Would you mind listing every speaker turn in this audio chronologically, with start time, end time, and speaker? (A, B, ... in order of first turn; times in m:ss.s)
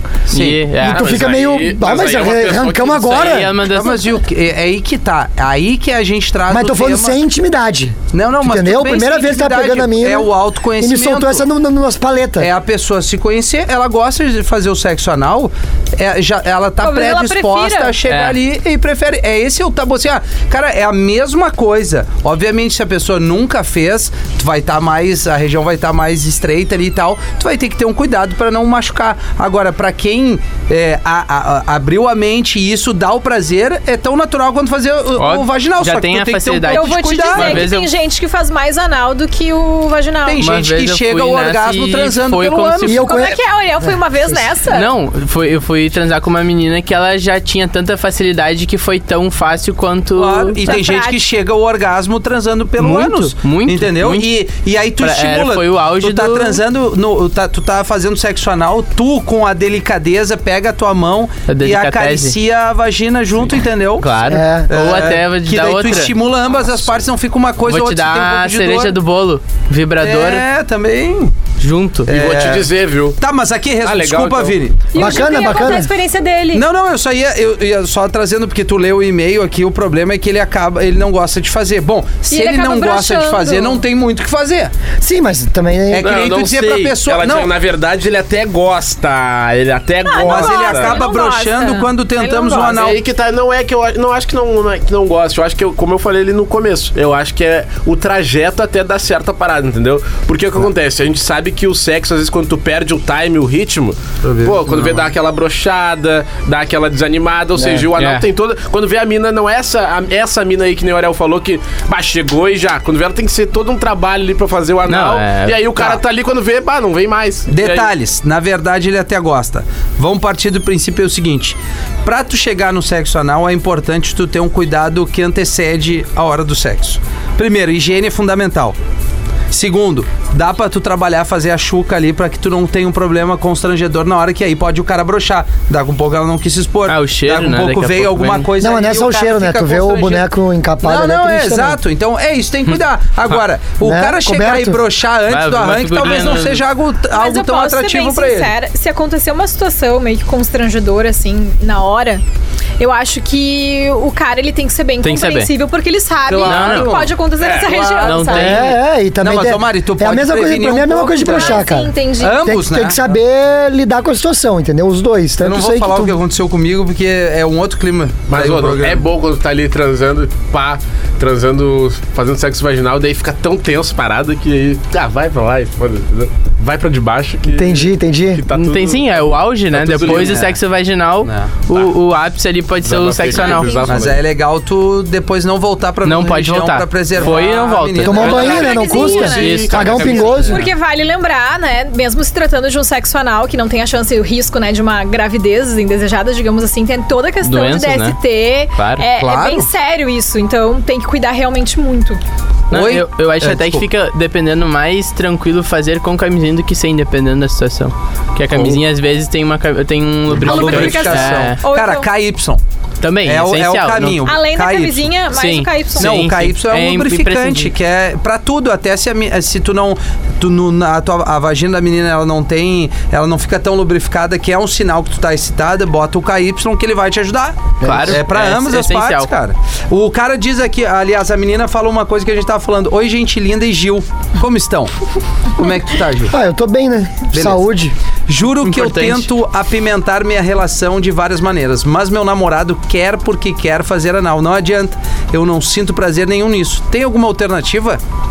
0:00.3-0:01.1 A
0:00.3-0:00.6 B
0:00.8-0:03.6 C
0:00.8-0:03.2 D
0:02.9-0:04.0 A
0:03.7-0:07.2 B
0:06.5-0:12.5 C
0:08.1-0:11.4 B
0:12.4-0:37.7 B
0:16.8-0:18.0 E
0:18.1-0:18.4 A
0:35.2-0:37.9 A
0:36.7-0:40.5 E
0:40.3-0:43.0 B
0:40.4-0:43.0 A
0:42.8-0:44.5 C
0:43.0-0:44.9 E
0:44.7-0:50.6 A
0:50.2-1:09.0 B
0:50.6-0:51.2 E
0:52.8-0:54.3 A
0:55.0-0:56.6 A
1:01.5-1:02.4 A
1:04.0-1:06.2 A
1:04.3-1:04.7 C
1:06.6-1:06.9 D
1:07.6-1:10.4 A
1:10.0-1:11.5 B
1:11.6-1:12.1 A
1:12.1-1:12.7 B
1:12.1-1:13.2 D
1:13.2-1:14.8 B
1:13.8-1:14.6 D
1:14.9-1:16.6 E
1:15.0-1:15.9 C
1:16.5-1:24.7 B
1:22.3-1:23.8 E
1:25.0-1:26.1 C
1:25.9-1:27.5 B
1:26.0-1:31.0 D
1:30.0-1:32.9 E
1:30.2-1:33.0 B
1:32.7-1:57.9 D
1:44.2-1:45.1 B
1:47.9-1:48.3 A
1:54.9-1:55.6 A
1:57.5-2:08.8 B
2:09.5-2:20.3 B
2:16.9-2:18.5 A
2:18.6-2:21.8 C
2:20.8-2:28.5 B
2:23.8-2:24.8 C
2:25.3-2:26.6 A
2:27.1-2:32.2 E
2:32.8-2:38.7 E
2:35.0-2:35.5 A
2:36.3-2:38.7 B
2:36.4-2:37.0 A
2:37.4-2:37.7 D
2:38.0-2:38.8 A
2:38.4-2:46.2 C
2:39.2-2:41.6 B
2:41.0-2:42.5 E
2:42.2-2:43.1 B
2:45.4-2:49.0 B
2:48.3-2:59.2 D
2:57.5-2:58.4 C
2:58.5-3:03.9 A
2:59.7-3:00.5 D
3:00.0-3:00.6 B
3:01.2-3:01.6 B
3:02.8-3:04.2 D
3:03.3-3:04.0 E
3:03.9-3:08.8 B
3:06.0-3:08.5 A
3:08.0-3:10.6 C
3:08.1-3:10.6 D
3:08.3-3:22.2 E
3:09.3-3:10.3 A
3:17.4-3:18.2 A
3:18.8-3:19.1 A
3:19.1-3:19.7 B
3:22.7-3:23.9 B
3:22.7-3:31.6 A
3:28.5-3:28.8 D
3:30.3-3:32.6 B
3:30.4-3:32.1 E
3:33.0-3:34.2 A
3:33.2-3:35.2 B
3:34.2-3:36.2 E
3:35.3-3:37.7 A
3:36.0-3:54.9 B
3:47.8-3:49.3 A
3:47.8-3:48.2 C
3:55.6-3:56.3 B
3:56.3-3:58.0 C
3:57.3-3:57.7 B
3:58.3-4:08.0 B
3:58.6-3:59.3 A